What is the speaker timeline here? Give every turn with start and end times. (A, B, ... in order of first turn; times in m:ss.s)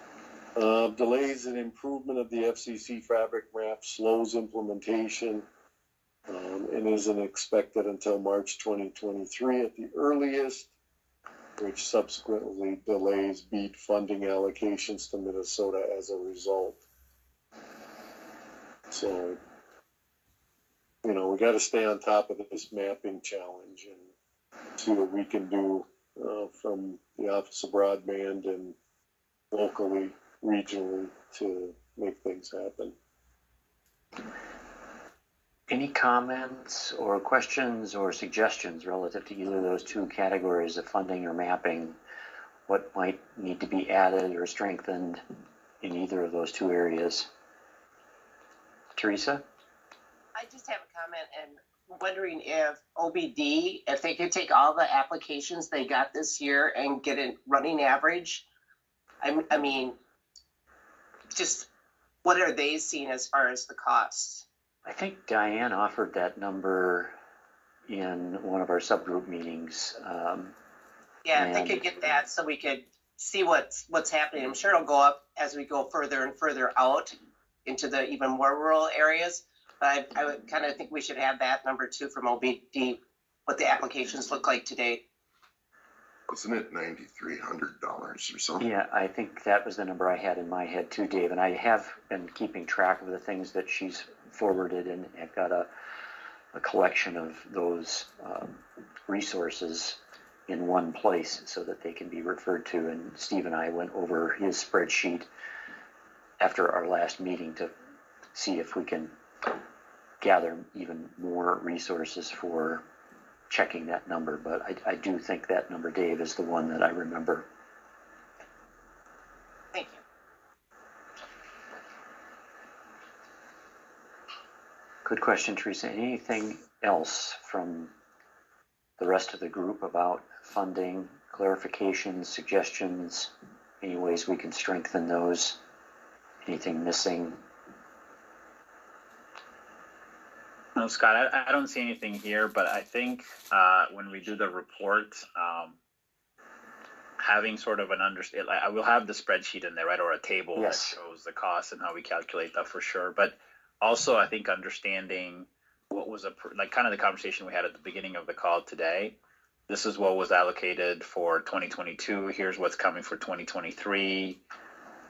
0:00.5-0:05.4 A
0:06.3-0:10.7 A
0:11.6-0:16.8 A
0:18.9-0:19.4 A
0:21.0-0:24.1 A
0:24.8-0:28.8 A
0:29.5-0:32.9 A
0:35.7-0:42.0 B
0:42.7-0:45.2 B
0:45.8-0:47.3 B
0:49.0-0:49.4 B
0:50.3-0:58.4 C
0:59.2-1:00.0 C
1:01.3-1:01.7 C
1:02.2-1:04.4 C
1:04.8-1:07.2 B
1:07.8-1:10.5 B
1:11.2-1:25.0 C
1:11.3-1:11.9 B
1:26.3-1:28.6 D
1:28.6-1:35.7 B
1:36.5-1:45.3 B
1:46.4-1:47.7 B
1:48.3-1:49.1 B
1:50.2-1:52.8 B
1:53.5-1:57.5 B
1:59.7-2:00.0 C
2:05.0-2:07.9 B
2:09.0-2:15.6 B
2:16.4-2:17.4 B
2:20.8-2:25.8 E
2:27.2-2:39.2 E
2:30.6-2:31.0 B
2:39.7-2:44.4 E